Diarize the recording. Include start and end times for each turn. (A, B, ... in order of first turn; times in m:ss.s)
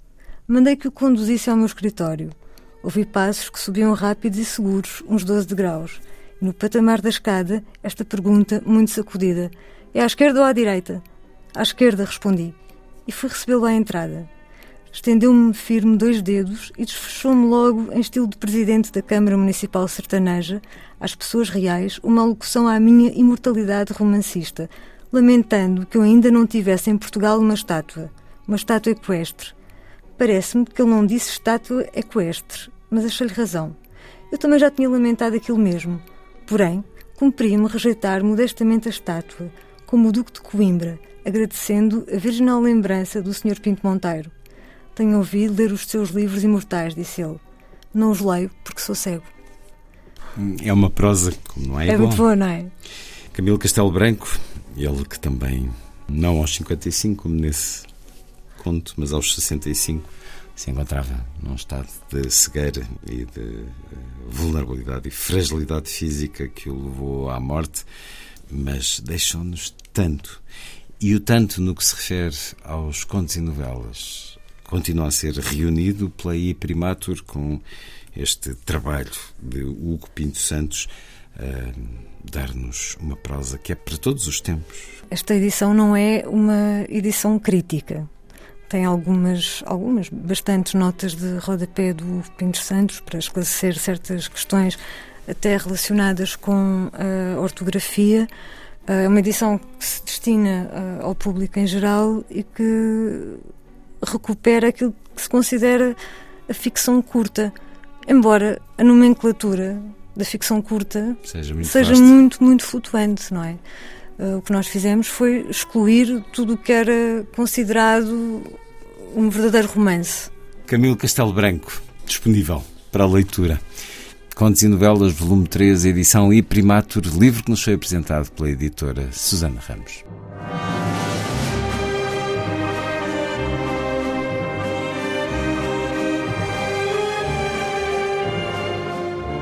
0:00.5-0:11.0 A
0:11.5-0:14.3 A
0:14.9-0:29.5 A
0:30.2-0:33.8 A
0:34.3-0:44.3 A
0:44.9-0:47.4 A
0:47.9-0:49.3 A
0:50.3-0:52.2 B
0:51.8-0:52.7 A
0:53.3-0:57.9 B
0:58.6-1:07.8 B
1:08.5-1:10.4 B
1:11.0-1:17.6 B
1:18.1-1:25.0 B
1:25.1-1:28.1 A
1:28.7-1:38.3 A
1:38.9-1:43.4 A
1:44.0-1:46.0 A
1:46.5-1:47.5 A
1:48.1-1:53.6 A
1:51.2-1:52.2 B
1:54.2-2:00.3 A
2:00.7-2:03.6 B
2:04.3-2:10.0 B